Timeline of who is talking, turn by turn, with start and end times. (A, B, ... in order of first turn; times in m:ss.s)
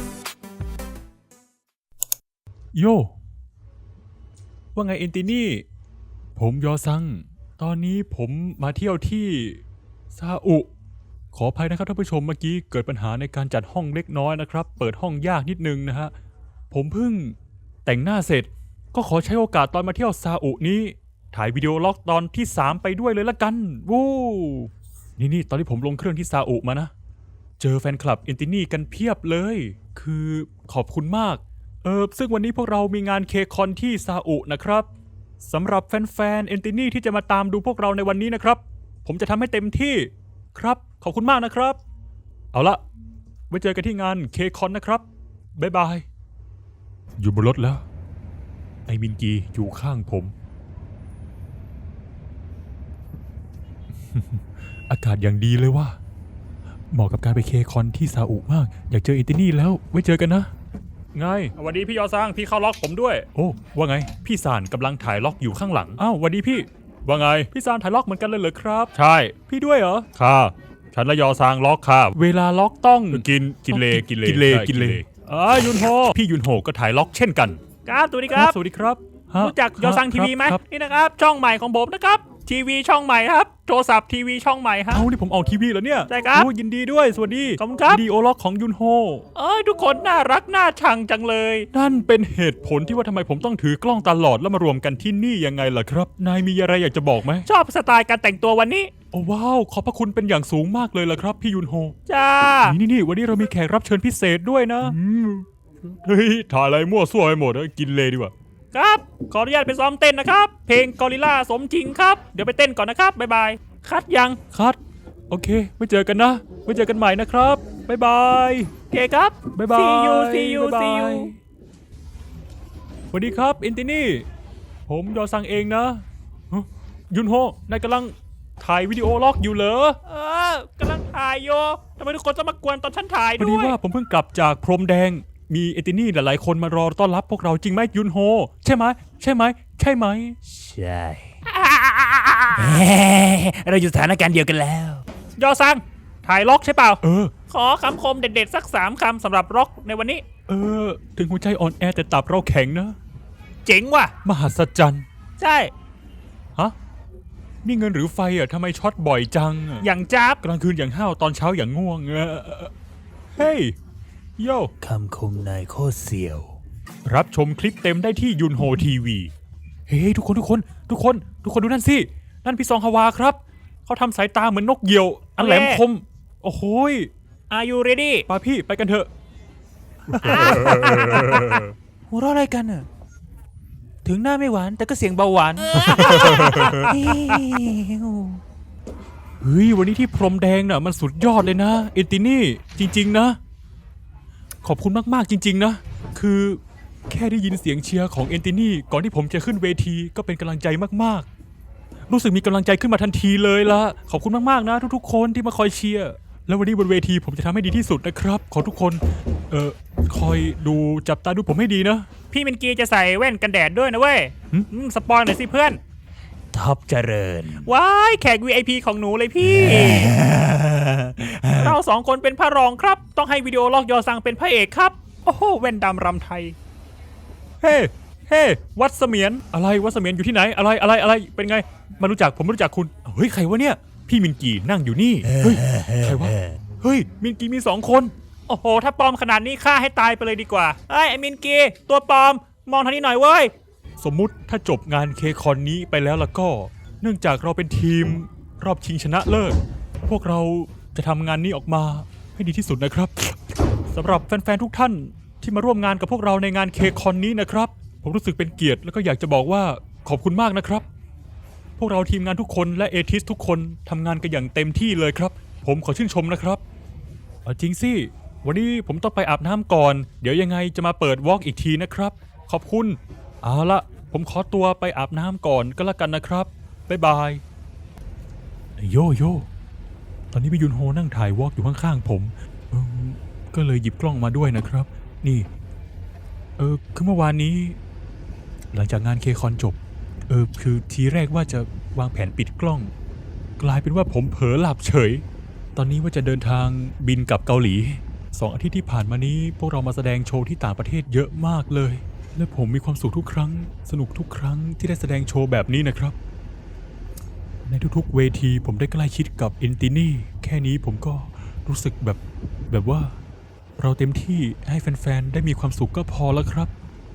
0:02.7-0:03.2 A
0:04.8-0:05.7 A
0:06.4-0:09.6 A
0:10.1-0:10.7 A
0:11.3-0:16.1 A
0:16.7-0:26.9 A
0:27.6-0:34.9 A
0:35.4-0:41.8 A
0:42.5-0:42.8 A
0:43.5-0:46.1 A
0:47.2-0:47.8 A
0:48.9-0:50.3 A
0:54.1-0:56.0 A
0:56.9-1:00.5 A
1:01.1-1:01.6 A
1:01.6-1:03.3 B
1:03.3-1:17.6 A
1:13.7-1:14.9 B
1:17.9-1:18.6 B
1:18.3-1:20.6 A
1:19.4-1:25.1 B
1:24.9-1:29.2 A
1:26.1-1:26.5 B
1:27.6-1:28.0 B
1:29.4-1:31.7 B
1:31.7-1:37.5 A
1:37.5-1:38.9 B
1:39.1-1:42.0 A
1:42.1-1:42.8 B
1:42.6-1:48.3 A
1:48.7-1:54.4 B
1:54.5-1:54.8 A
1:55.3-1:58.8 A
1:58.9-2:01.3 B
1:59.5-2:01.4 A
2:03.1-2:04.3 A
2:04.9-2:10.0 A
2:10.1-2:13.8 B
2:13.4-2:20.4 A
2:20.5-2:21.4 C
2:21.5-2:24.0 B
2:22.6-2:25.0 C
2:25.4-2:30.2 B
2:27.0-2:27.3 A
2:30.5-2:33.0 A
2:33.6-2:34.1 B
2:34.2-2:35.1 A
2:35.4-2:35.7 B
2:37.6-2:39.9 A
2:39.8-2:40.4 B
2:40.4-2:42.7 A
2:43.4-2:43.8 A
2:44.4-2:44.7 A
2:44.8-2:46.6 C
2:47.0-2:49.3 A
2:49.9-2:57.1 A
2:55.4-2:55.8 B
2:57.5-2:58.3 B
2:58.3-2:59.1 A
3:00.1-3:01.7 A
3:00.2-3:02.9 B
3:04.1-3:04.7 A
3:04.1-3:08.4 B
3:05.7-3:07.3 A
3:09.4-3:13.4 A
3:14.6-3:21.3 A
3:22.1-3:32.1 A
3:32.3-3:35.8 B
3:36.5-3:37.7 C
3:37.5-3:40.2 B
3:39.4-3:41.8 C
3:41.6-3:46.6 B
3:47.6-3:58.1 A
3:55.3-3:56.3 C
3:58.5-4:03.5 B
4:04.0-4:20.9 A
4:21.8-4:26.6 A
4:27.4-4:37.4 A
4:38.8-4:39.5 A
4:40.3-4:45.5 A
4:46.6-4:47.8 A
4:48.7-4:49.8 A
4:50.3-4:52.9 A
4:53.6-4:55.2 A
4:55.8-5:06.2 A
5:07.7-5:13.2 A
5:13.8-5:16.7 A